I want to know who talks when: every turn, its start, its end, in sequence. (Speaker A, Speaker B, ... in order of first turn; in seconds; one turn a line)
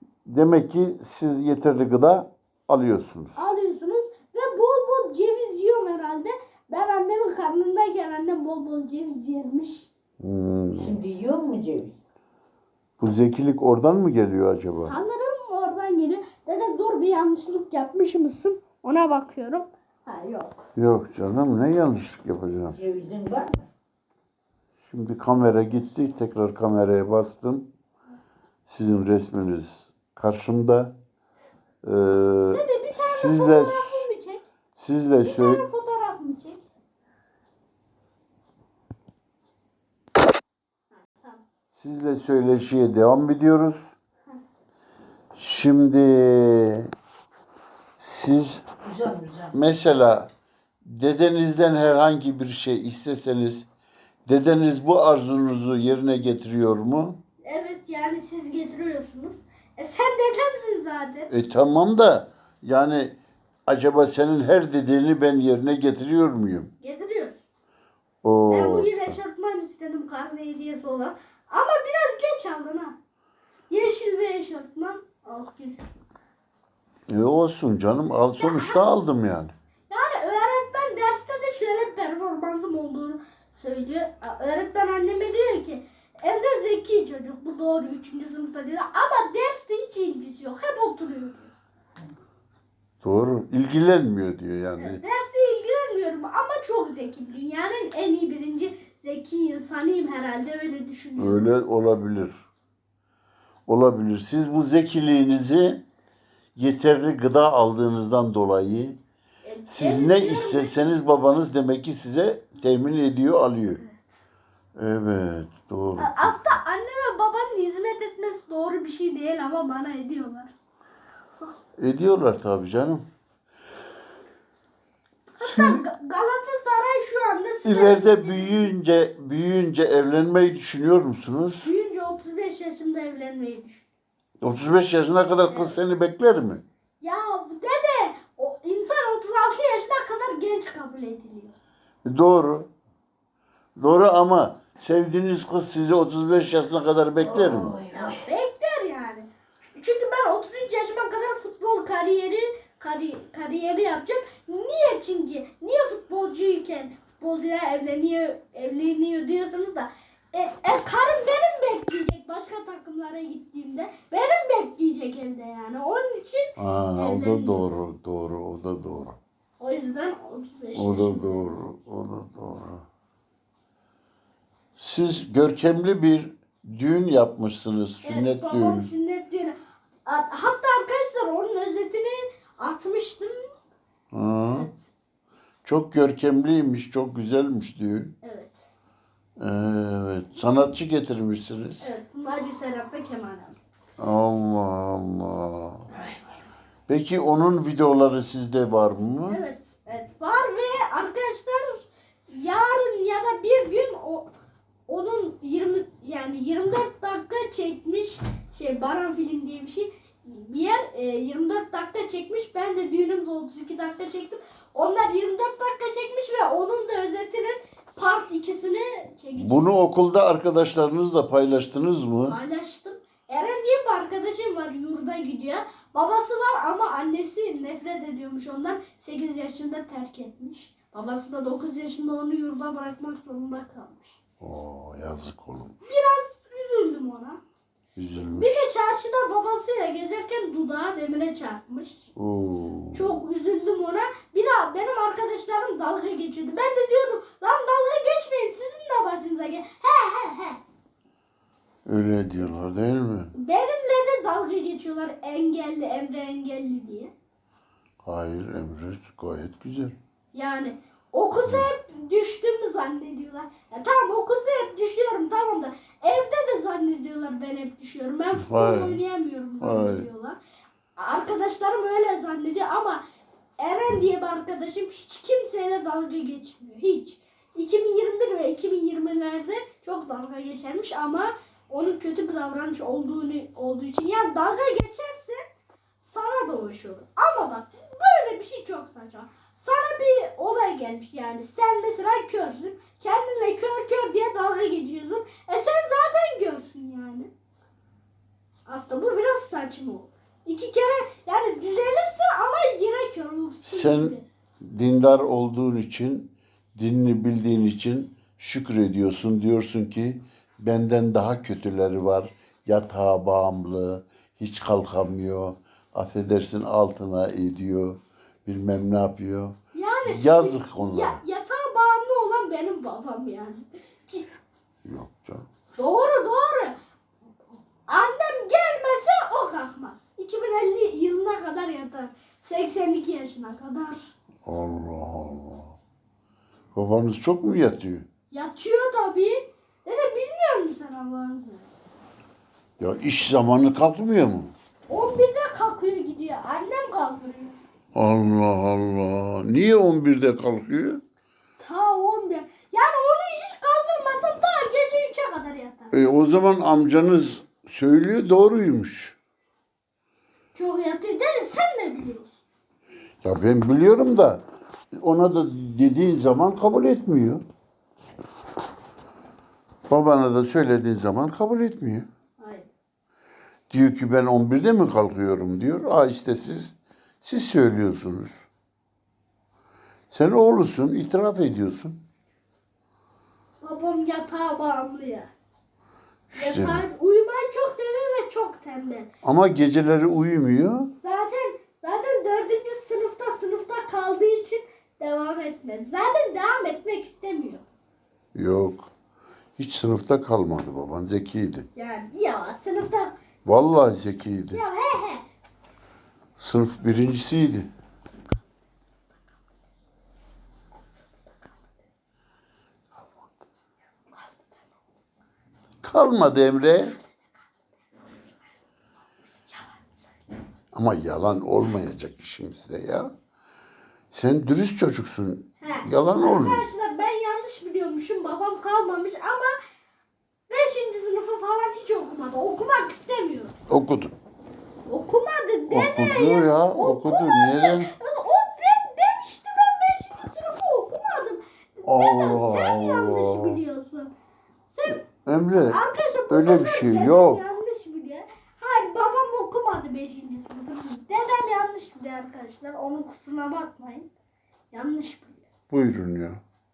Speaker A: 0.2-3.4
Speaker B: 3.4-9.9
Speaker A: 10.2-11.1
Speaker C: 10.8-11.9
Speaker A: 13.0-15.0
Speaker B: 14.7-20.6
Speaker A: 20.8-22.8
Speaker C: 22.7-23.6
Speaker A: 24.8-27.7
Speaker A: 28.7-30.9
Speaker A: 31.8-34.1
Speaker B: 32.5-34.4
Speaker A: 34.8-35.6
Speaker B: 35.2-36.6
Speaker B: 40.9-41.4
Speaker A: 41.7-43.9
Speaker A: 45.4-46.9
Speaker A: 48.0-48.7
Speaker C: 48.8-49.5
Speaker A: 49.5-50.3
Speaker A: 50.8-53.7
Speaker A: 54.2-57.2
Speaker B: 57.4-61.3
Speaker A: 61.3-66.7
Speaker B: 66.8-67.4
Speaker A: 68.2-69.1
Speaker B: 68.5-72.9
Speaker B: 73.7-75.9
Speaker A: 77.1-79.5
Speaker B: 78.4-78.8
Speaker B: 79.9-91.5
Speaker A: 93.0-95.0
Speaker B: 94.8-101.5
Speaker A: 101.2-102.4
Speaker A: 103.7-105.8
Speaker A: 106.5-109.0
Speaker B: 109.4-111.0
Speaker A: 109.7-113.8
Speaker A: 114.8-116.4
Speaker B: 116.0-120.5
Speaker A: 121.8-123.0
Speaker B: 125.4-128.7
Speaker A: 125.4-125.8
Speaker A: 127.6-131.7
Speaker B: 131.6-133.8
Speaker A: 134.4-136.6
Speaker B: 135.5-135.8
Speaker B: 137.0-141.5
Speaker A: 142.0-142.7
Speaker A: 143.8-147.8
Speaker C: 147.2-148.2
Speaker B: 147.9-167.7
Speaker A: 166.6-169.2
Speaker B: 169.6-171.5
Speaker A: 170.7-172.8
Speaker A: 174.8-178.9
Speaker B: 178.0-183.5
Speaker A: 184.1-184.7
Speaker B: 184.5-184.9
Speaker A: 185.6-188.1
Speaker B: 188.2-188.6
Speaker A: 189.4-191.9
Speaker B: 191.8-193.6
Speaker A: 194.0-195.9
Speaker A: 196.9-199.4
Speaker B: 199.3-204.3
Speaker B: 204.9-219.7
Speaker A: 219.3-222.4
Speaker B: 222.3-234.1
Speaker A: 234.4-235.8
Speaker B: 235.8-237.4
Speaker A: 237.9-238.6
Speaker B: 238.3-242.1
Speaker A: 242.2-243.1
Speaker B: 242.9-250.6
Speaker A: 251.8-253.3
Speaker B: 253.3-257.1
Speaker A: 258.0-259.9
Speaker B: 260.3-270.4
Speaker A: 268.3-269.0
Speaker A: 269.6-270.1
Speaker B: 271.0-273.0
Speaker B: 273.6-285.4
Speaker B: 286.0-297.3
Speaker B: 298.7-304.2
Speaker A: 303.6-321.2
Speaker B: 319.7-324.3
Speaker A: 324.8-325.4
Speaker B: 325.7-326.8
Speaker B: 327.9-334.0
Speaker A: 334.4-335.8
Speaker A: 336.7-338.1
Speaker B: 338.3-341.8
Speaker A: 342.8-344.5
Speaker B: 344.9-347.6
Speaker A: 347.9-351.0
Speaker B: 351.6-355.9
Speaker A: 355.9-359.1
Speaker B: 360.5-362.4
Speaker A: 363.2-364.4
Speaker A: 364.9-367.4
Speaker A: 369.9-372.1
Speaker B: 372.4-372.7
Speaker A: 373.7-378.4
Speaker A: 380.1-382.0
Speaker B: 383.6-385.3
Speaker A: 386.3-386.9
Speaker B: 386.3-389.1
Speaker A: 389.2-390.9
Speaker B: 391.0-397.6
Speaker A: 398.3-398.9
Speaker A: 399.6-401.7
Speaker B: 401.8-403.1
Speaker A: 403.4-404.6
Speaker B: 404.5-405.2
Speaker A: 406.4-407.7
Speaker A: 415.8-417.0
Speaker B: 419.5-420.0
Speaker A: 420.7-423.1
Speaker A: 424.1-426.6
Speaker B: 425.6-429.6
Speaker B: 430.5-433.5
Speaker A: 433.7-434.1
Speaker B: 434.9-444.1
Speaker A: 435.7-437.9
Speaker A: 441.8-443.6
Speaker B: 444.7-454.1
Speaker A: 445.0-447.4
Speaker B: 454.7-455.4
Speaker A: 455.7-456.4